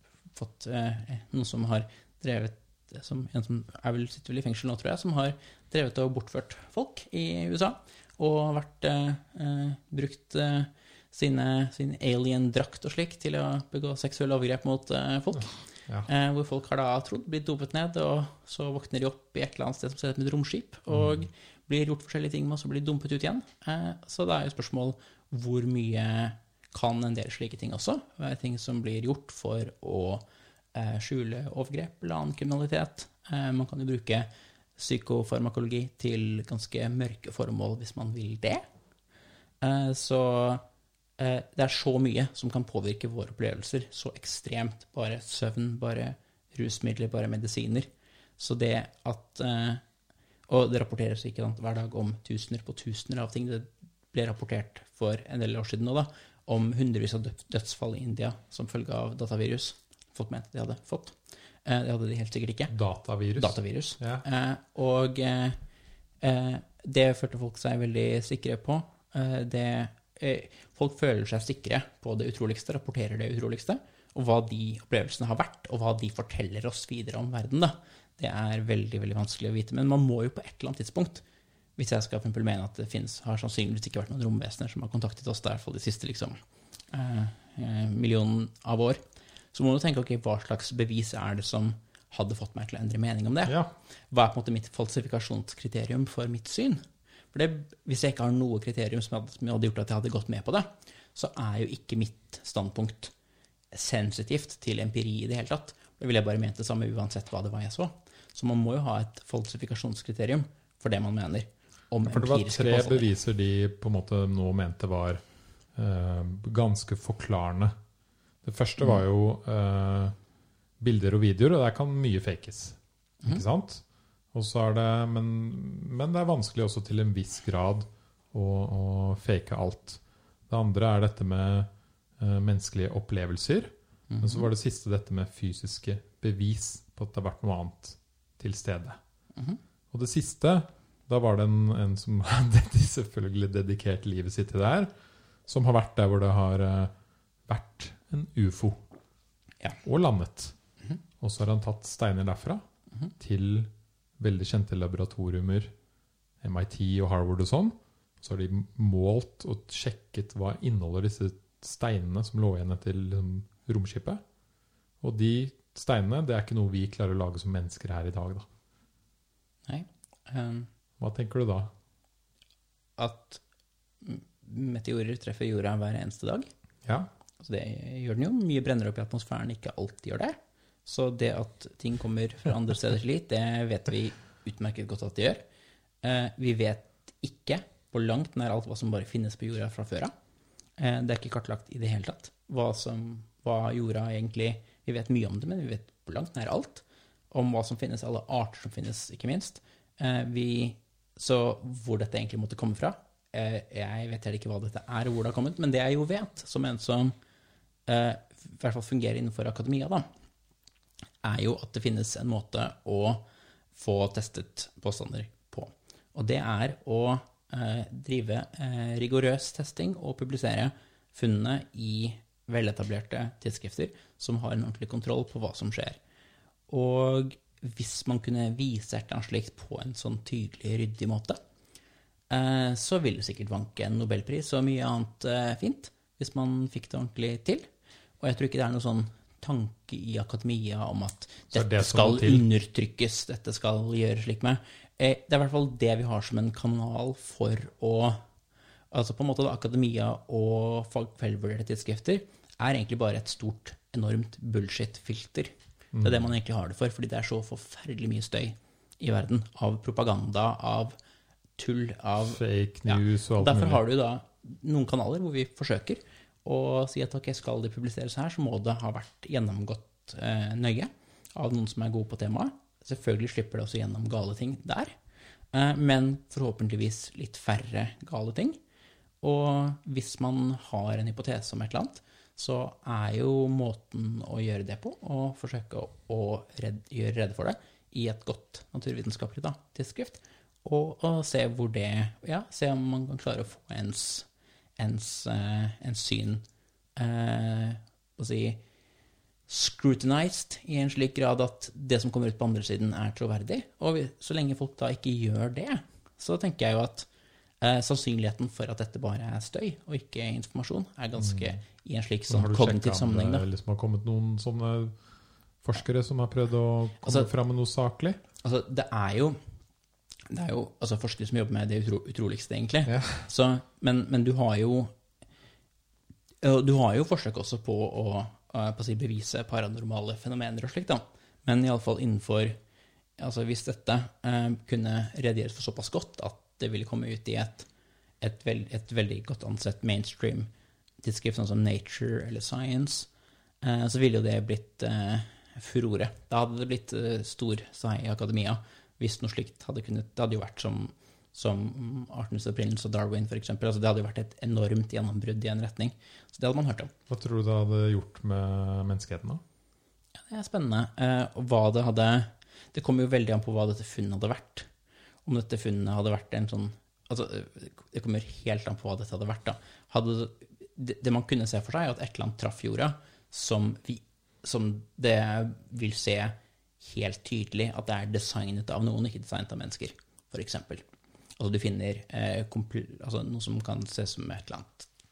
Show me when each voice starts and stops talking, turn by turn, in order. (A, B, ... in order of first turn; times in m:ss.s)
0:00.3-0:38.6 A
0:15.4-0:16.1 B
0:20.9-0:21.3 B
0:39.6-0:40.6 A
0:41.2-0:49.8 A
0:50.5-1:02.8 A
1:02.7-1:04.2 B
1:03.4-1:05.6 A
1:06.2-1:21.2 A
1:21.8-1:26.4 A
1:26.9-1:29.0 A
1:29.5-1:43.1 A
1:33.5-1:33.7 B
1:43.7-1:53.1 A
1:52.0-1:55.2 B
1:55.8-1:57.7 B
1:58.4-2:00.2 B
2:00.8-2:19.0 B
2:14.1-2:14.5 A
2:19.4-2:19.6 A
2:19.9-2:24.9 B
2:25.5-2:26.9 B
2:27.5-2:28.8 B
2:29.8-2:30.6 B
2:31.2-2:32.6 B
2:33.2-2:35.7 B
2:36.4-2:44.2 B
2:45.0-2:48.5 B
2:49.7-2:50.7 A
2:51.0-2:51.7 B
2:53.0-2:53.4 A
2:54.0-2:56.5 A
2:57.4-3:05.4 A
3:06.0-3:10.1 A
3:10.8-3:27.2 A
3:27.9-3:30.0 A
3:31.2-3:46.0 A
3:46.7-3:51.4 A
3:52.3-3:57.7 A
3:58.2-4:08.2 A
4:01.5-4:02.5 B
4:08.9-4:15.5 A
4:15.9-4:16.3 B
4:16.0-4:21.0 A
4:21.6-4:35.0 A
4:22.3-4:23.8 B
4:35.5-4:38.6 A
4:39.2-4:54.3 A
4:54.8-4:56.4 A
4:57.0-4:58.6 A
4:59.5-5:07.1 A
5:07.6-5:13.5 A
5:11.2-5:11.6 B
5:12.3-5:15.0 B
5:15.6-5:18.2 B
5:17.0-5:17.3 A
5:18.4-5:19.4 A
5:20.3-5:24.9 A
5:22.9-5:23.3 B
5:26.4-5:32.6 A
5:33.2-5:37.7 A
5:38.2-5:40.5 A
5:41.0-5:43.1 A
5:43.6-5:56.9 A
5:57.1-5:59.4 B
6:00.2-6:04.7 A
6:05.3-6:20.8 A
6:21.4-6:24.9 A